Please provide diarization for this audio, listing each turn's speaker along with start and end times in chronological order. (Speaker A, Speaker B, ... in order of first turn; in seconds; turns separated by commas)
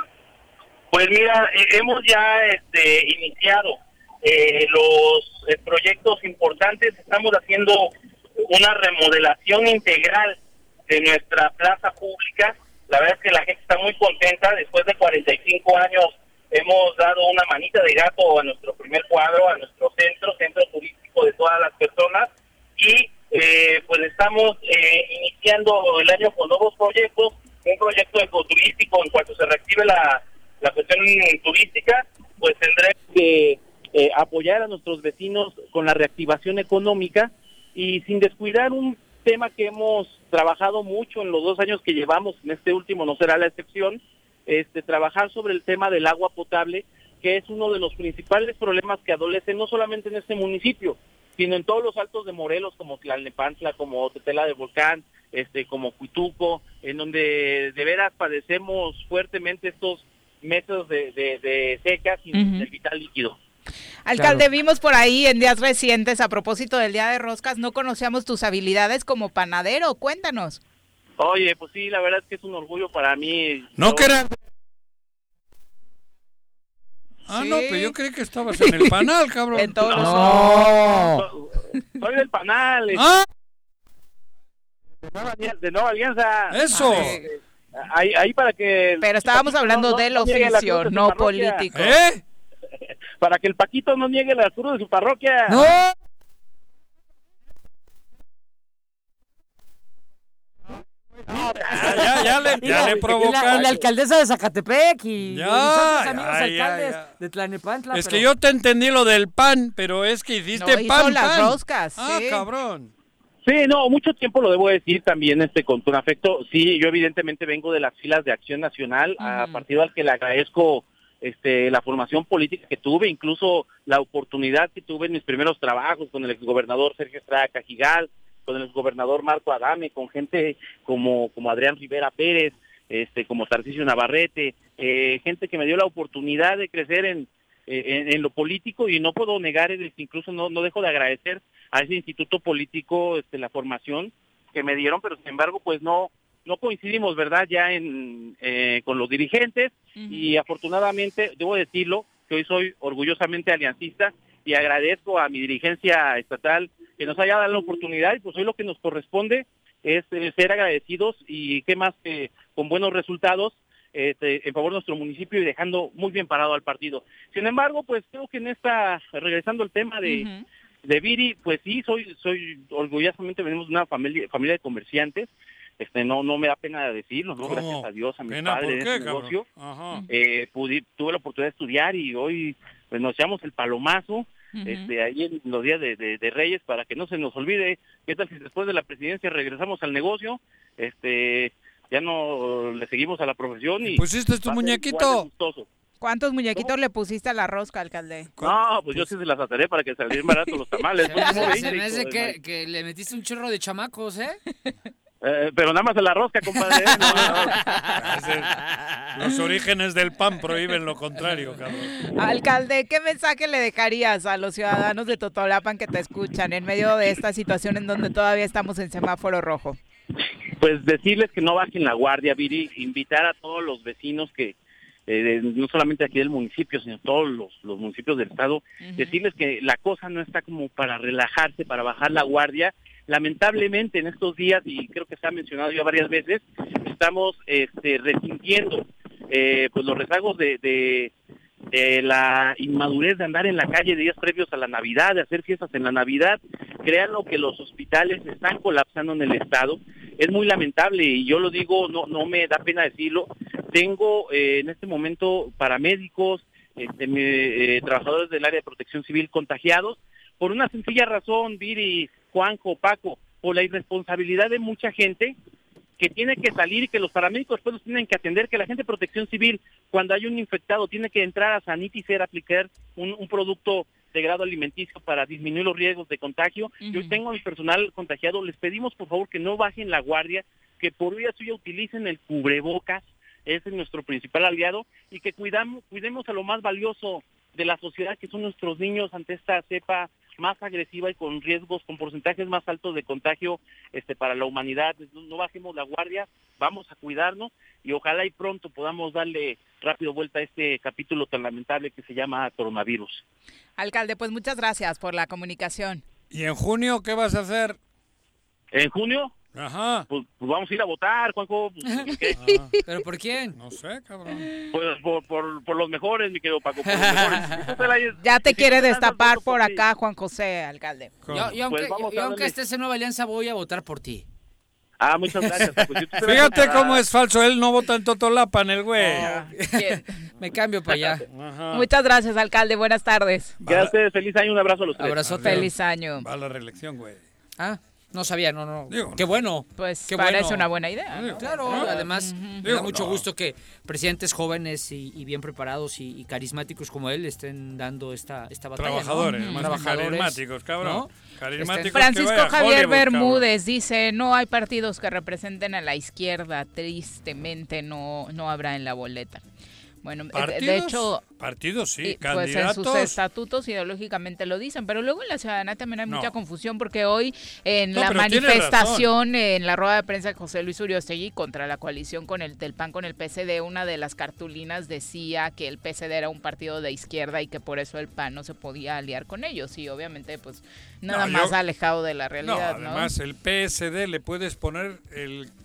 Speaker A: 0.9-63.4, Speaker B: 62.3-62.6, Speaker B: 64.0-70.6, Speaker C: 64.2-64.4, Speaker A: 71.2-74.2, Speaker D: 73.8-74.3, Speaker D: 77.3-80.2, Speaker B: 77.3-77.9, Speaker B: 78.7-79.0, Speaker B: 79.5-80.8, Speaker C: 79.9-81.2, Speaker A: 81.0-83.0, Speaker D: 82.9-83.2, Speaker A: 85.0-91.6, Speaker D: 86.5-87.2, Speaker B: 86.7-87.3, Speaker B: 89.0-92.0, Speaker D: 91.7-92.2, Speaker A: 93.2-95.6, Speaker C: 95.5-95.9, Speaker D: 101.4-103.8, Speaker C: 101.7-108.3, Speaker D: 105.3-107.1, Speaker D: 107.9-112.9, Speaker B: 110.5-112.4, Speaker A: 113.4-170.3, Speaker B: 119.2-119.6, Speaker B: 150.0-150.3, Speaker B: 170.0-170.4, Speaker A: 170.8-179.4, Speaker D: 177.4-180.0, Speaker A: 180.1-195.7, Speaker B: 184.5-184.9, Speaker D: 193.9-195.3, Speaker B: 196.0-198.3, Speaker D: 198.4-199.1, Speaker A: 198.4-202.4, Speaker C: 201.0-204.4, Speaker B: 201.1-201.6, Speaker A: 205.2-207.6, Speaker C: 207.0-209.0, Speaker D: 207.2-212.1, Speaker B: 207.4-207.8, Speaker B: 212.0-219.8, Speaker A: 220.6-224.5, Speaker A: 225.1-241.1, Speaker B: 228.8-229.1, Speaker A: 241.7-265.3, Speaker A: 266.0-303.2, Speaker B: 276.8-277.2, Speaker B: 303.8-306.0, Speaker D: 306.3-307.8, Speaker A: 308.7-309.3, Speaker D: 309.5-310.1, Speaker A: 310.1-312.4, Speaker D: 312.4-312.7, Speaker B: 312.4-312.8, Speaker C: 312.8-313.6, Speaker D: 313.5-314.5, Speaker A: 314.7-319.9, Speaker C: 316.9-317.7, Speaker B: 318.2-321.1, Speaker D: 321.2-321.6, Speaker C: 321.3-324.2, Speaker A: 321.6-322.5, Speaker A: 325.0-327.1, Speaker D: 326.2-329.3, Speaker C: 329.1-331.2, Speaker B: 329.2-330.1, Speaker D: 331.3-331.9, Speaker B: 331.7-333.6, Speaker D: 333.6-333.9, Speaker A: 333.6-335.2, Speaker C: 335.0-335.7, Speaker D: 335.2-337.2, Speaker B: 335.4-336.2, Speaker C: 337.6-340.6, Speaker D: 338.9-339.2, Speaker B: 339.8-342.6, Speaker D: 341.1-342.0, Speaker C: 341.4-352.0, Speaker D: 342.6-343.2, Speaker D: 348.8-353.4, Speaker B: 349.3-349.7, Speaker B: 351.9-359.4, Speaker B: 360.0-361.2, Speaker D: 360.3-363.2, Speaker B: 362.0-383.1, Speaker D: 367.9-369.1, Speaker D: 381.1-381.6, Speaker D: 382.4-385.5